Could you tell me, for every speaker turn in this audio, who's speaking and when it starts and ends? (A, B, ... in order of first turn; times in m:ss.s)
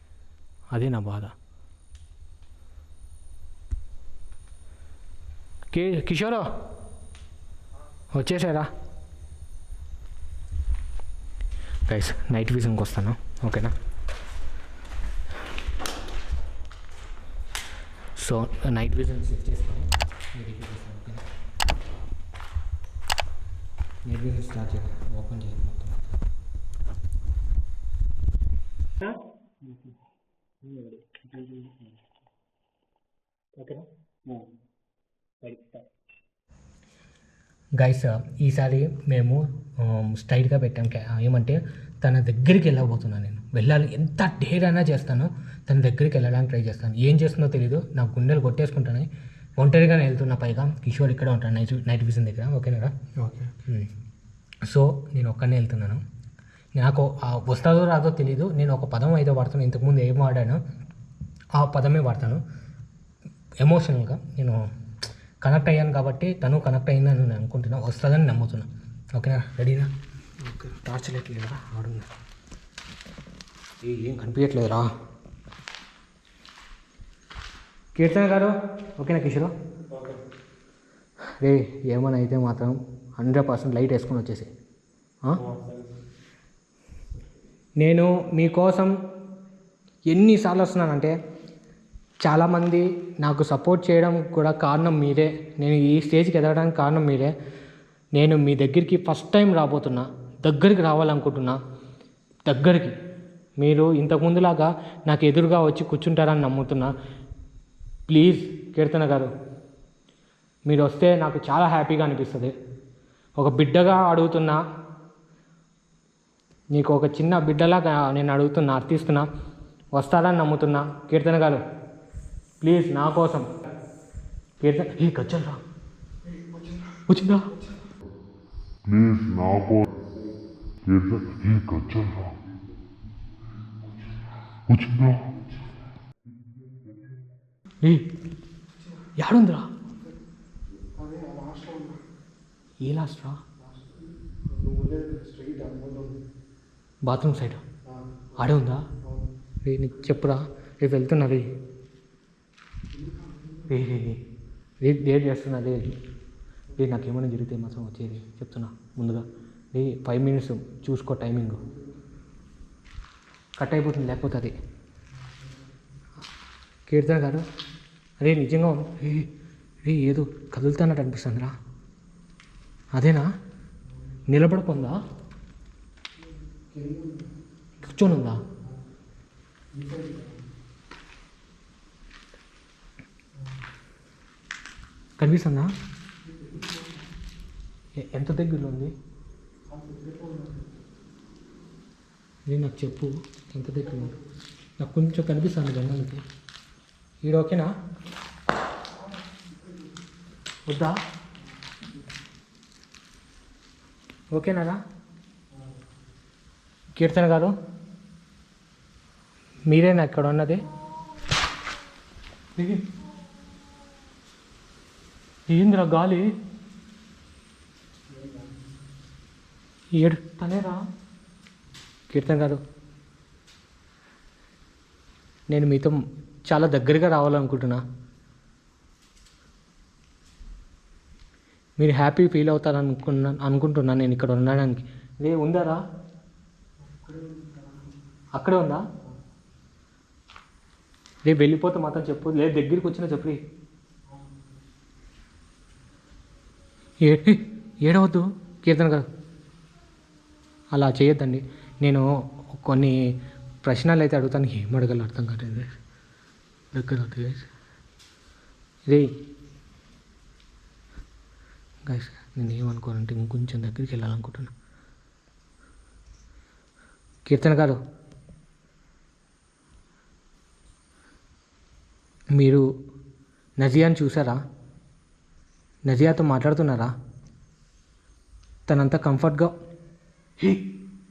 0:00.7-0:01.3 A
0:05.7-0:06.5 A
0:08.1-0:08.7 A
0:11.9-0:13.7 A
0:18.2-0:21.2 A
0:24.0-0:26.1 A
0:30.7-0:31.8 A
0:33.6-0:33.8 A
0:35.4-0:35.8 A
0:37.8-0:52.9 A
0:53.2-0:53.5 B
0:54.6-0:56.0 A
0:56.8-1:00.6 A
1:01.6-1:02.4 A
1:03.6-1:04.6 A
1:05.4-1:09.9 A
1:10.4-1:10.8 B
1:10.8-1:12.1 A
1:13.8-1:14.9 A
1:18.0-1:19.5 A
1:19.9-1:20.2 B
1:21.4-1:24.5 A
1:25.4-1:25.9 B
1:27.8-1:28.9 A
1:30.1-1:31.2 A
1:32.2-1:37.3 A
1:38.2-1:41.6 A
1:42.5-1:43.0 A
1:43.6-1:46.9 A
1:48.1-1:49.3 A
1:50.7-1:52.5 A
1:53.4-1:54.6 A
1:56.7-1:59.3 A
1:59.9-2:01.6 A
2:02.6-2:03.5 A
2:04.6-2:05.6 A
2:06.2-2:07.8 B
2:07.1-2:07.5 A
2:08.8-2:09.9 C
2:10.8-2:12.4 C
2:14.7-2:15.7 C
2:18.8-2:19.1 B
2:19.2-2:19.7 A
2:19.9-2:20.2 B
2:20.9-2:22.0 B
2:22.8-2:23.4 A
2:23.6-2:26.2 B
2:27.1-2:27.6 A
2:27.8-2:28.5 B
2:28.4-2:28.8 A
2:29.0-2:29.3 B
2:29.6-2:31.5 A
2:32.9-2:33.7 B
2:33.7-2:34.2 A
2:34.8-2:35.8 A
2:36.8-2:41.6 A
2:41.6-2:42.0 B
2:43.6-2:44.6 A
2:45.2-2:45.6 B
2:46.9-2:47.4 A
2:48.2-2:49.3 A
2:49.8-2:51.6 A
2:53.0-2:53.3 A
2:54.3-2:55.0 A
2:56.2-2:57.4 B
2:57.8-2:58.4 A
2:59.7-3:00.4 B
3:05.2-3:05.7 A
3:06.2-3:07.1 B
3:08.0-3:08.9 A
3:09.7-3:10.8 B
3:12.5-3:14.1 A
3:14.8-3:16.2 A
3:17.2-3:17.7 A
3:18.9-3:20.0 B
3:20.7-3:21.0 A
3:21.4-3:22.0 B
3:24.3-3:24.8 A
3:25.5-3:25.8 B
3:27.0-3:27.5 A
3:29.7-3:30.6 A
3:32.6-3:32.9 A
3:35.5-3:36.3 A
3:38.1-3:38.6 B
3:40.0-3:40.8 A
3:42.1-3:42.6 A
3:45.5-3:46.0 A
3:46.5-3:47.8 A
3:51.8-3:55.8 A
3:56.8-3:58.0 B
3:58.4-3:58.8 A
4:01.3-4:03.4 A
4:04.1-4:04.6 B
4:07.0-4:09.0 A
4:10.8-4:13.0 A
4:13.6-4:15.7 A
4:16.8-4:17.5 A
4:21.9-4:24.5 A
4:27.3-4:27.8 A
4:32.4-4:32.6 A
4:33.6-4:34.4 A
4:35.9-4:36.9 A
4:38.7-4:39.5 A